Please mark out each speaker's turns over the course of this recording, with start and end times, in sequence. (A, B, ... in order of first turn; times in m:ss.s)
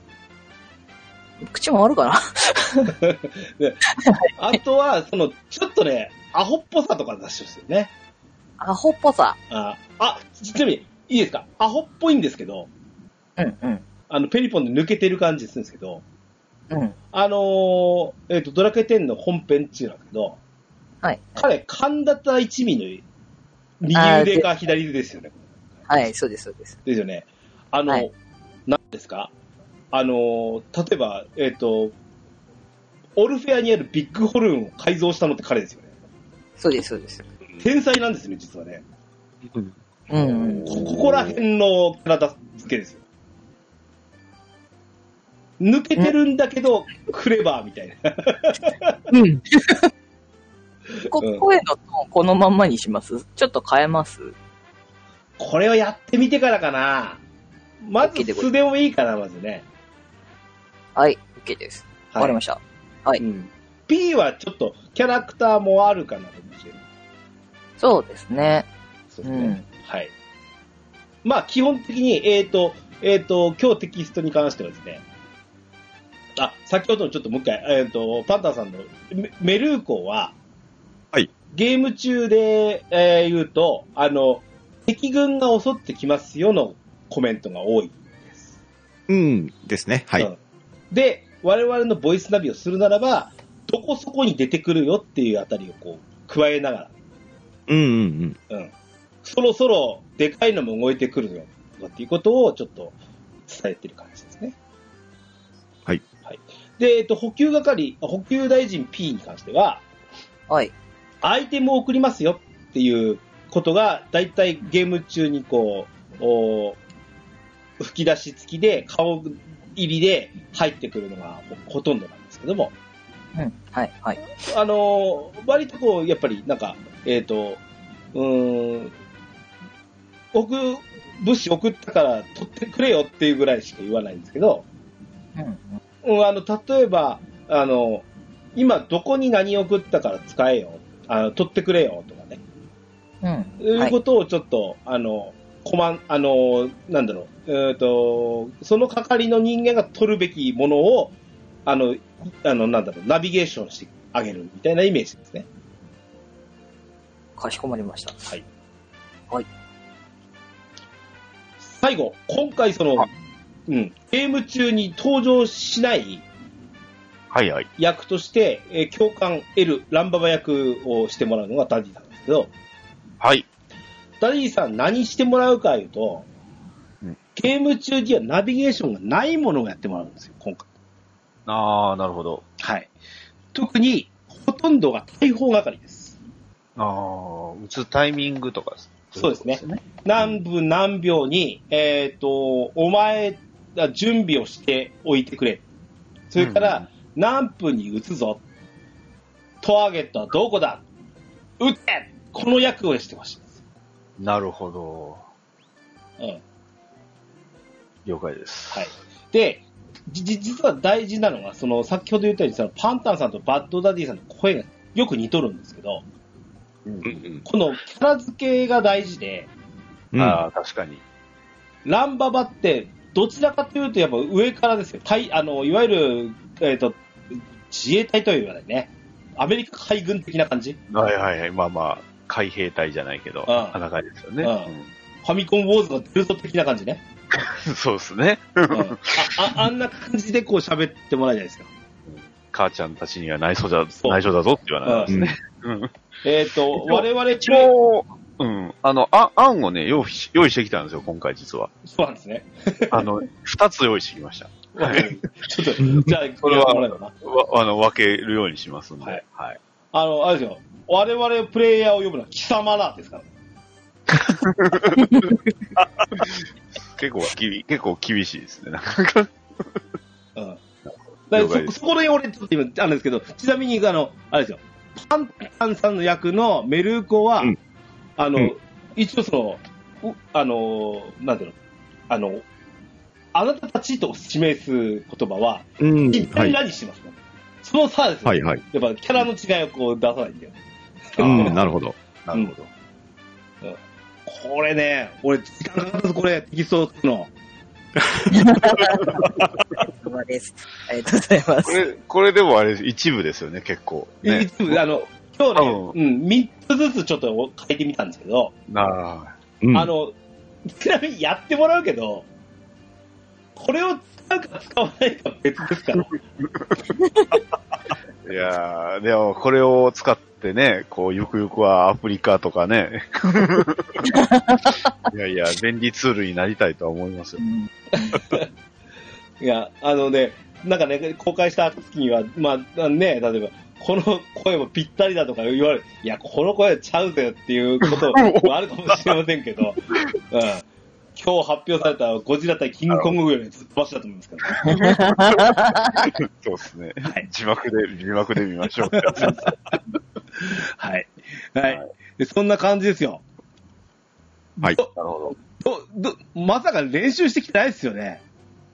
0:01.4-0:03.0 A
0:03.0-0:03.8 B
0:04.0-0:04.3 A
0:04.4-0:07.9 B
0:08.6-0:09.4 A
0:09.5-0:12.7 B
0:13.4-0:13.8 A
0:14.1-0:16.0 B
0:17.1-0:20.4 B
0:21.0-0:21.4 A
0:21.4-0:23.0 B
0:23.8-0:25.5 B
0:24.0-0:24.5 A
0:25.9-0:26.8 A
0:26.9-0:28.1 B
0:28.7-0:29.3 B
0:29.9-0:31.9 B
0:33.2-0:35.9 B
0:36.6-0:37.3 A
0:37.6-0:38.8 B
0:39.5-0:41.3 C
0:40.1-0:40.8 A
0:40.7-0:43.0 B
0:45.6-0:49.0 B
0:49.1-0:49.9 A
0:51.1-0:54.3 A
0:51.2-0:51.5 B
0:55.4-0:57.2 B
0:57.8-0:59.6 B
0:58.0-0:58.5 A
1:01.0-1:03.2 A
1:03.2-1:06.8 B
1:07.8-1:08.7 A
1:09.1-1:10.1 B
1:09.2-1:09.6 A
1:11.2-1:15.0 B
1:16.4-1:20.3 B
1:21.5-1:28.6 B
1:29.1-1:30.3 D
1:30.9-1:36.9 B
1:37.7-1:38.4 D
1:39.2-1:43.0 B
1:43.5-1:44.6 B
1:46.3-1:49.8 B
1:51.2-1:56.8 B
1:57.8-2:02.7 B
2:03.4-2:04.2 A
2:04.4-2:07.6 B
2:08.1-2:08.9 B
2:10.3-2:14.6 B
2:15.4-2:15.8 A
2:16.0-2:18.0 B
2:18.6-2:22.4 B
2:23.2-2:24.0 A
2:23.6-2:31.1 B
2:31.7-2:35.5 B
2:37.4-2:38.2 A
2:41.6-2:43.1 B
2:43.7-2:46.2 B
2:47.3-2:47.7 C
2:47.8-2:52.5 B
2:53.2-2:53.5 C
2:54.2-2:56.2 B
2:57.4-3:00.7 B
3:01.5-3:02.4 C
3:02.6-3:02.9 B
3:03.5-3:06.2 B
3:06.8-3:10.4 C
3:09.2-3:15.6 B
3:16.3-3:18.4 B
3:16.4-3:16.8 C
3:19.6-3:20.8 B
3:21.6-3:23.6 B
3:24.2-3:25.2 C
3:28.1-3:28.9 C
3:28.7-3:36.0 B
3:36.9-3:37.4 C
3:37.0-3:37.4 D
3:37.4-3:39.5 B
3:40.1-3:40.4 D
3:40.2-3:41.0 C
3:41.8-3:47.0 B
3:47.7-3:50.8 B
3:50.9-3:54.9 C
3:53.5-3:53.8 B
3:54.4-3:54.7 B
3:55.2-3:57.0 B
3:57.4-3:59.5 C
3:58.7-4:01.7 B
4:02.1-4:05.9 C
4:04.0-4:04.2 B
4:04.8-4:05.2 B
4:05.1-4:05.4 D
4:06.2-4:07.7 B
4:06.7-4:11.7 C
4:11.8-4:13.1 B
4:12.9-4:15.1 C
4:14.8-4:17.1 B
4:15.8-4:16.1 D
4:16.4-4:19.6 C
4:19.9-4:23.3 B
4:24.2-4:25.4 C
4:26.8-4:29.3 C
4:30.9-4:31.7 C
4:31.3-4:37.6 B
4:38.2-4:41.6 B
4:42.1-4:42.4 B
4:43.3-4:50.6 B
4:45.8-4:46.6 D
4:48.3-4:48.6 D
4:51.1-4:51.6 B
4:51.2-4:52.0 D
4:51.2-4:51.6 C
4:52.2-4:52.7 C
4:53.6-4:57.3 B
4:58.1-4:58.5 D
4:58.3-4:59.2 A
4:59.4-4:59.6 D
4:59.9-5:01.8 A
5:01.6-5:04.8 C
5:04.2-5:08.6 B
5:05.6-5:06.0 C
5:08.7-5:09.4 C
5:09.6-5:09.9 D
5:09.7-5:10.2 B
5:10.7-5:12.3 B
5:13.6-5:16.2 B
5:18.2-5:27.4 C
5:24.2-5:24.6 A
5:27.4-5:28.2 A
5:28.0-5:28.5 B
5:29.4-5:40.6 B
5:37.9-5:38.5 C
5:41.2-5:44.9 B
5:44.5-5:49.5 C
5:44.7-5:46.0 A
5:48.9-5:49.5 B
5:50.5-5:53.2 B
5:54.6-5:54.9 B
5:54.9-5:55.4 C
5:55.5-5:58.2 B